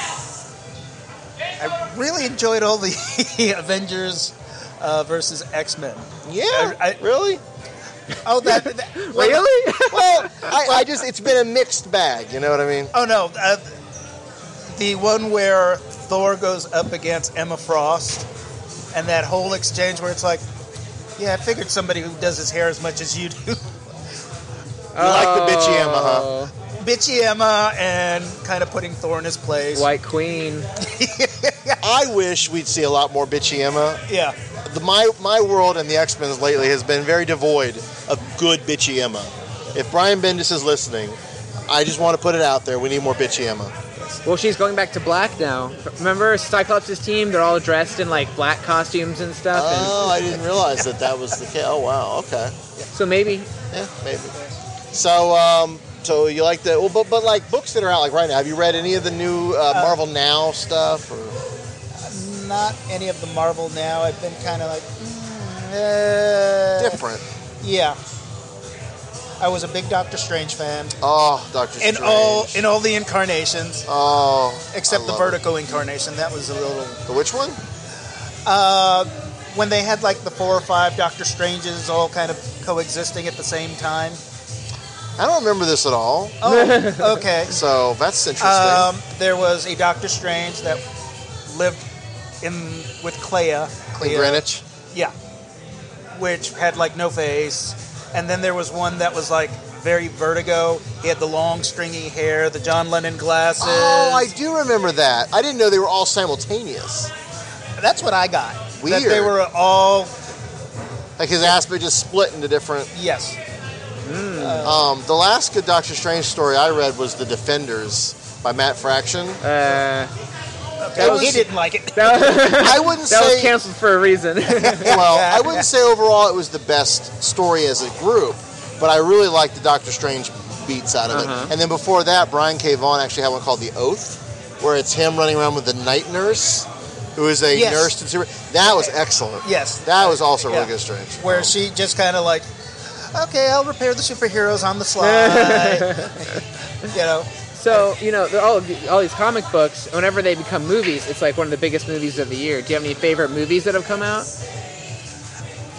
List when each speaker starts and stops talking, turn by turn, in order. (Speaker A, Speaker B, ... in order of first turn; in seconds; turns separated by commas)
Speaker A: 1.6-7.0, Speaker B: 6.2-7.4, Speaker A: 8.2-9.4, Speaker C: 8.4-10.5, Speaker B: 9.1-12.9, Speaker A: 12.9-13.7, Speaker A: 14.7-18.3, Speaker A: 18.9-20.4, Speaker A: 21.2-23.6, Speaker C: 24.9-26.5, Speaker B: 25.0-26.3, Speaker A: 26.7-29.9, Speaker C: 29.7-30.7, Speaker A: 30.8-31.8, Speaker B: 31.8-34.0, Speaker A: 34.1-34.4, Speaker B: 34.6-43.9, Speaker C: 44.2-50.2, Speaker B: 49.5-52.6, Speaker C: 52.9-53.5, Speaker B: 53.7-54.3, Speaker B: 54.9-61.4, Speaker A: 59.7-60.0, Speaker A: 62.0-67.0, Speaker B: 66.8-67.2, Speaker A: 67.6-68.0, Speaker A: 69.4-71.0, Speaker B: 71.0-72.7, Speaker A: 71.8-73.9, Speaker B: 73.9-75.4, Speaker A: 74.7-77.0, Speaker B: 77.1-77.6, Speaker A: 78.5-84.2, Speaker B: 85.2-86.4, Speaker A: 86.4-87.6, Speaker C: 86.5-87.2, Speaker B: 87.5-88.9, Speaker A: 88.4-90.8, Speaker A: 91.5-91.9, Speaker A: 92.4-95.1, Speaker B: 94.0-94.6, Speaker A: 96.1-104.3, Speaker B: 103.6-107.1, Speaker A: 107.8-110.2, Speaker B: 108.8-109.4, Speaker B: 111.2-112.9, Speaker A: 112.9-113.4, Speaker C: 114.0-114.7, Speaker A: 114.4-114.8, Speaker B: 114.6-119.4, Speaker C: 119.4-120.1, Speaker A: 120.8-122.4, Speaker B: 121.0-121.5, Speaker C: 121.0-125.0, Speaker B: 122.1-123.6, Speaker A: 124.6-125.7, Speaker B: 124.6-141.6, Speaker C: 131.1-131.5, Speaker A: 137.5-138.0, Speaker A: 138.6-146.4, Speaker C: 145.0-146.3, Speaker A: 146.9-147.9, Speaker C: 147.6-154.3